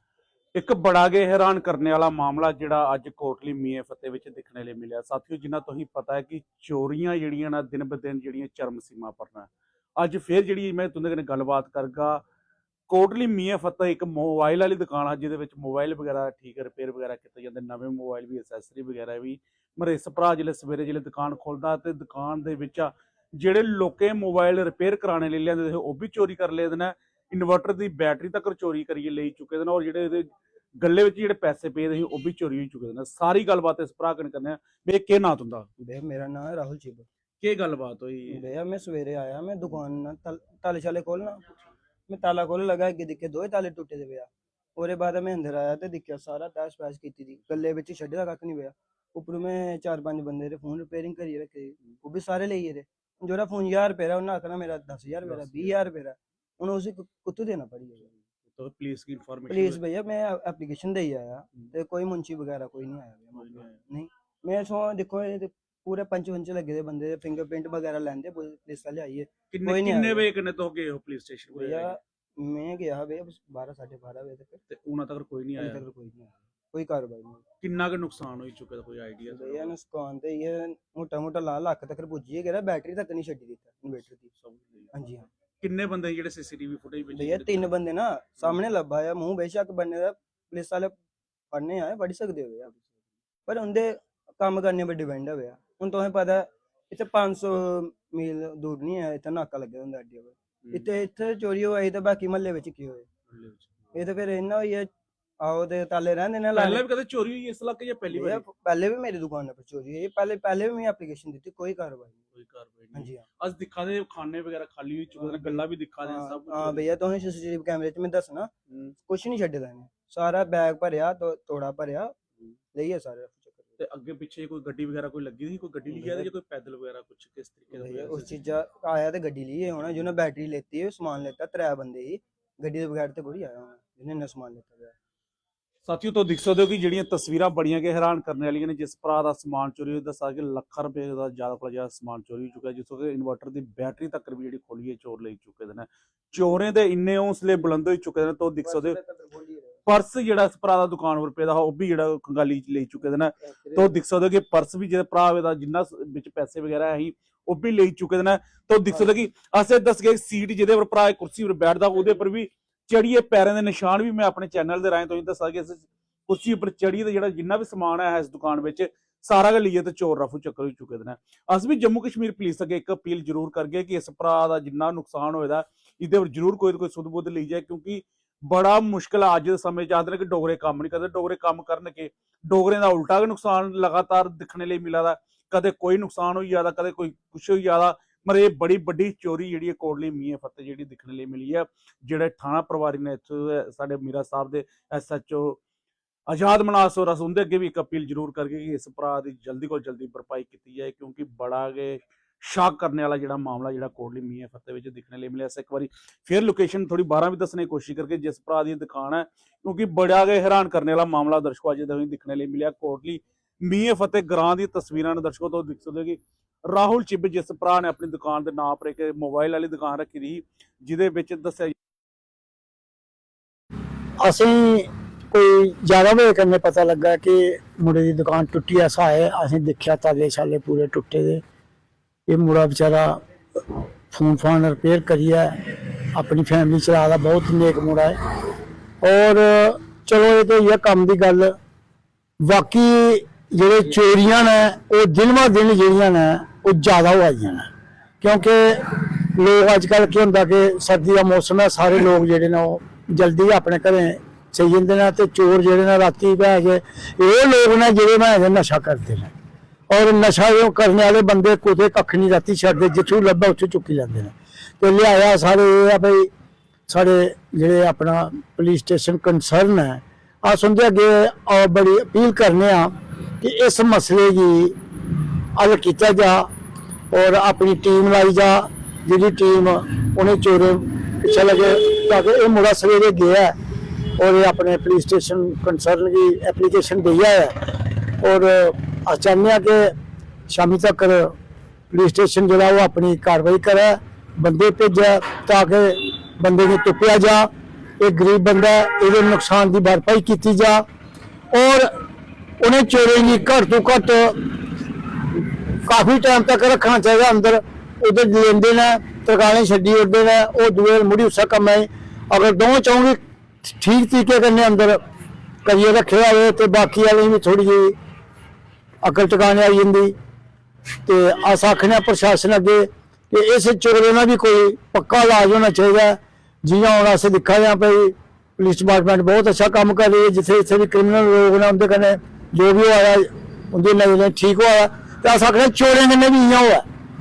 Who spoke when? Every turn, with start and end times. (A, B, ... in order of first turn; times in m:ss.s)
0:00.6-0:12.2 A
0:12.9-0:35.7 A
0:35.8-0:37.1 B
0:37.4-0:38.4 A
0:38.3-0:41.4 B
0:42.1-0:58.1 B
0:55.2-0:55.8 A
0:58.5-0:59.8 A
0:59.5-1:10.3 B
1:03.4-1:03.8 A
1:09.5-1:12.0 A
1:11.6-1:14.6 B
1:14.7-1:15.8 A
1:15.6-1:17.4 B
1:17.6-1:19.7 A
1:19.3-1:24.3 B
1:24.4-1:24.9 A
1:24.9-1:25.3 B
1:25.6-1:27.7 A
1:27.1-1:30.9 B
1:31.5-1:32.7 B
1:33.5-1:43.1 B
1:43.3-1:43.9 A
1:43.9-1:44.9 B
1:45.4-1:46.8 B
1:46.5-1:48.4 A
1:48.1-1:52.2 B
1:52.3-1:56.8 A
1:52.9-1:53.2 B
1:55.2-1:58.5 B
1:59.1-2:02.1 B
2:02.7-2:03.8 B
2:03.8-2:08.3 A
2:05.9-2:06.3 B
2:07.7-2:14.9 B
2:15.9-2:29.0 A
2:28.6-2:29.8 B
2:29.9-3:15.6 A
2:33.4-2:34.0 B
3:16.3-3:41.8 A
3:44.2-3:51.4 C
3:52.3-3:53.2 C
3:54.1-3:58.2 C
3:59.0-4:01.6 C
4:02.4-4:07.7 C
4:08.2-4:19.3 C
4:19.9-4:26.3 C
4:26.9-4:34.8 C
4:35.6-4:36.5 C
4:37.1-4:43.5 C
4:44.2-4:49.9 C
4:50.5-4:51.3 C
4:51.9-5:00.8 C
5:01.5-5:01.9 C
5:02.6-5:04.6 C
5:05.8-5:15.0 C
5:15.6-5:18.0 C
5:19.0-5:20.1 C
5:21.0-5:36.8 C